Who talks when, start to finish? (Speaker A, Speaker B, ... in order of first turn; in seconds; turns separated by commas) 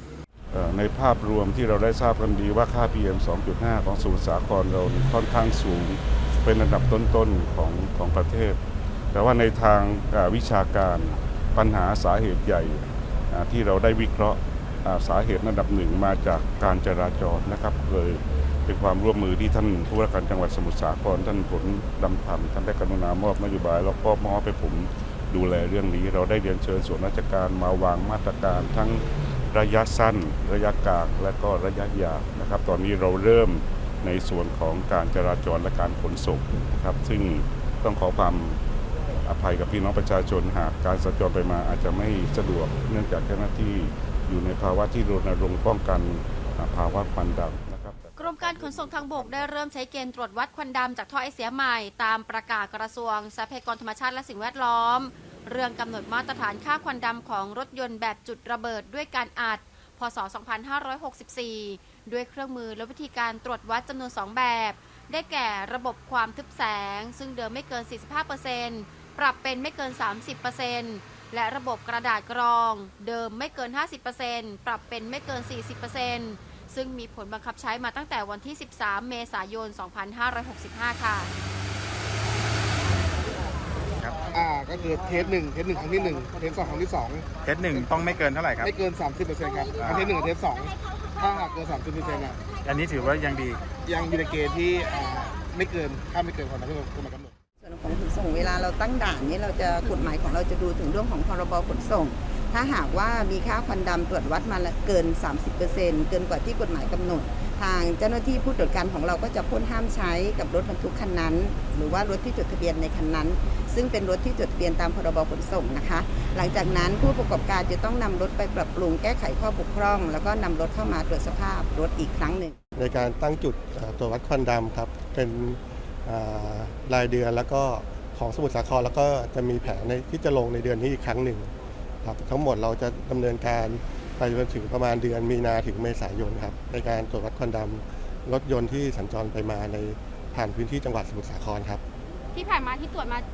Speaker A: 0.5-8.6, Speaker A: 9.1-38.6, Speaker A: 39.3-49.5, Speaker B: 48.2-81.3, Speaker C: 84.3-87.3, Speaker D: 87.4-88.7, Speaker C: 88.7-92.4, Speaker D: 89.8-90.1, Speaker D: 92.6-93.8, Speaker C: 93.8-97.3, Speaker E: 97.6-122.6, Speaker F: 122.7-131.5, Speaker F: 132.0-141.8